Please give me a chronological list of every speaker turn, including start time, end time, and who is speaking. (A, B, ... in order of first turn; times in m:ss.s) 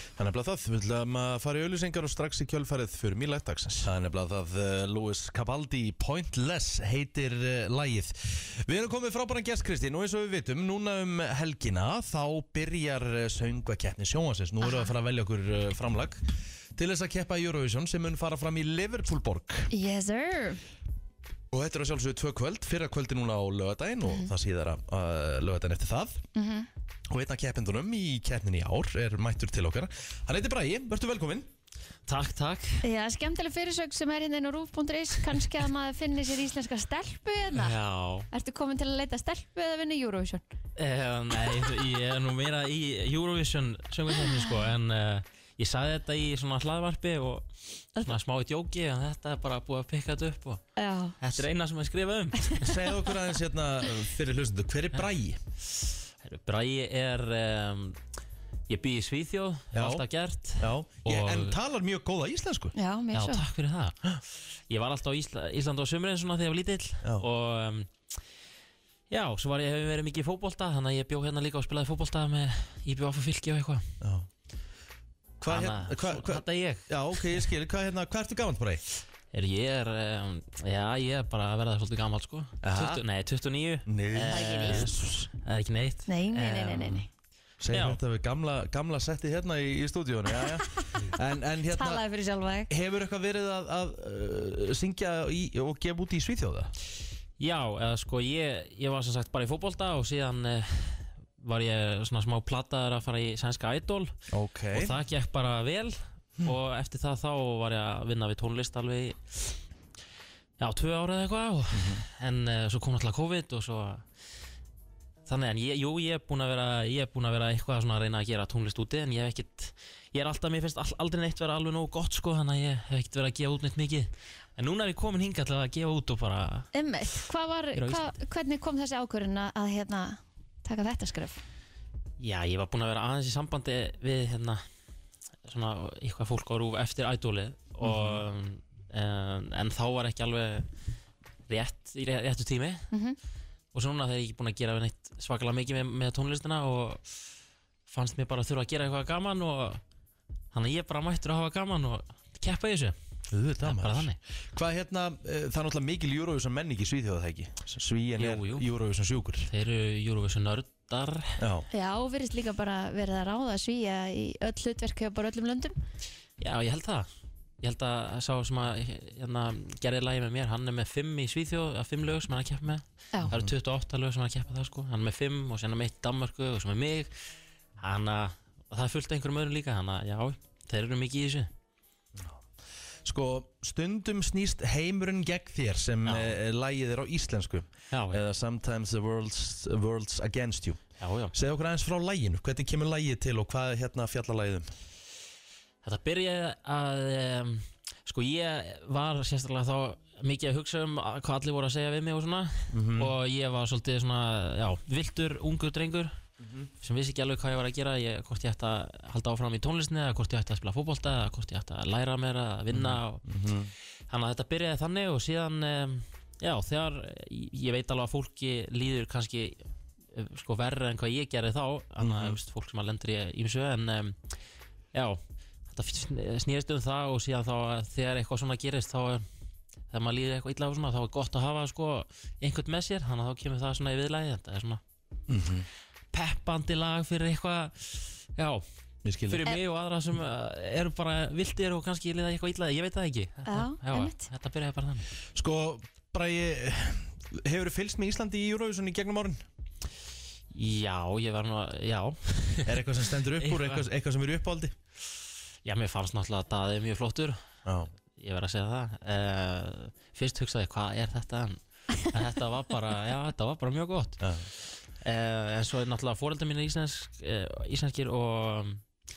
0:00.2-0:16.2 A
0:14.6-0:14.9 B
0:16.8-0:19.7 A
0:19.7-0:20.6 B
0:21.5-0:26.2 A
0:24.0-0:24.3 B
0:26.4-0:26.7 B
0:27.1-0:31.5 A
0:32.1-0:32.8 C
0:32.8-0:37.8 B
0:37.5-0:38.3 C
0:38.3-0:40.4 B
0:40.8-0:47.5 C
0:48.0-0:50.6 C
0:50.8-0:51.2 B
0:51.2-0:52.8 C
0:52.6-0:55.4 A
0:56.2-0:58.0 C
0:58.7-1:01.6 C
0:59.7-1:00.1 A
1:00.6-1:02.7 A
1:02.8-1:03.4 B
1:03.1-1:04.0 C
1:04.7-1:08.1 C
1:09.1-1:13.9 C
1:14.0-1:14.3 A
1:15.4-1:18.8 A
1:15.5-1:17.4 C
1:19.3-1:27.1 C
1:22.6-1:23.0 A
1:23.9-1:25.0 A
1:24.3-1:24.9 B
1:26.1-1:27.1 B
1:27.6-1:32.0 A
1:27.7-1:28.0 C
1:31.7-1:32.7 B
1:32.7-1:36.7 A
1:37.4-1:44.2 C
1:44.3-1:45.0 A
1:44.7-1:49.6 C
1:50.6-1:54.1 C
1:51.7-1:52.0 A
1:55.3-2:06.7 C
2:06.7-2:11.4 B
2:07.7-2:08.1 C
2:12.2-2:14.6 C
2:15.4-2:20.7 C
2:17.8-2:18.2 A
2:21.5-2:22.9 C
2:22.9-2:23.2 B
2:23.7-2:27.0 C
2:27.9-2:29.8 C
2:30.5-2:33.0 C
2:33.3-2:39.5 A
2:33.6-2:34.2 C
2:38.2-2:38.7 C
2:39.5-2:41.4 C
2:41.4-2:41.7 A
2:41.7-2:45.8 B
2:46.4-2:47.1 C
2:47.6-2:57.1 C
2:57.8-3:01.5 C
3:02.2-3:02.4 A
3:03.0-3:10.8 A
3:06.1-3:06.4 C
3:07.9-3:08.2 C
3:11.0-3:11.3 C
3:11.3-3:14.7 A
3:15.8-3:26.1 C
3:22.7-3:23.1 A
3:26.4-3:26.7 A
3:26.8-3:33.2 C
3:32.7-3:33.7 A
3:34.1-3:39.6 C
3:40.1-3:44.2 C
3:42.0-3:42.4 A
3:44.9-3:49.2 C
3:49.9-3:54.8 C
3:55.3-3:55.7 A
3:56.1-3:58.6 C
3:59.0-3:59.4 A
3:59.3-4:05.1 C
4:03.5-4:04.3 B
4:05.4-4:09.4 A
4:10.5-4:12.8 C
4:12.7-4:14.8 A
4:13.4-4:13.8 C
4:15.6-4:17.4 C
4:17.7-4:17.9 A
4:18.2-4:24.2 C
4:24.2-4:24.5 A
4:25.0-4:28.8 C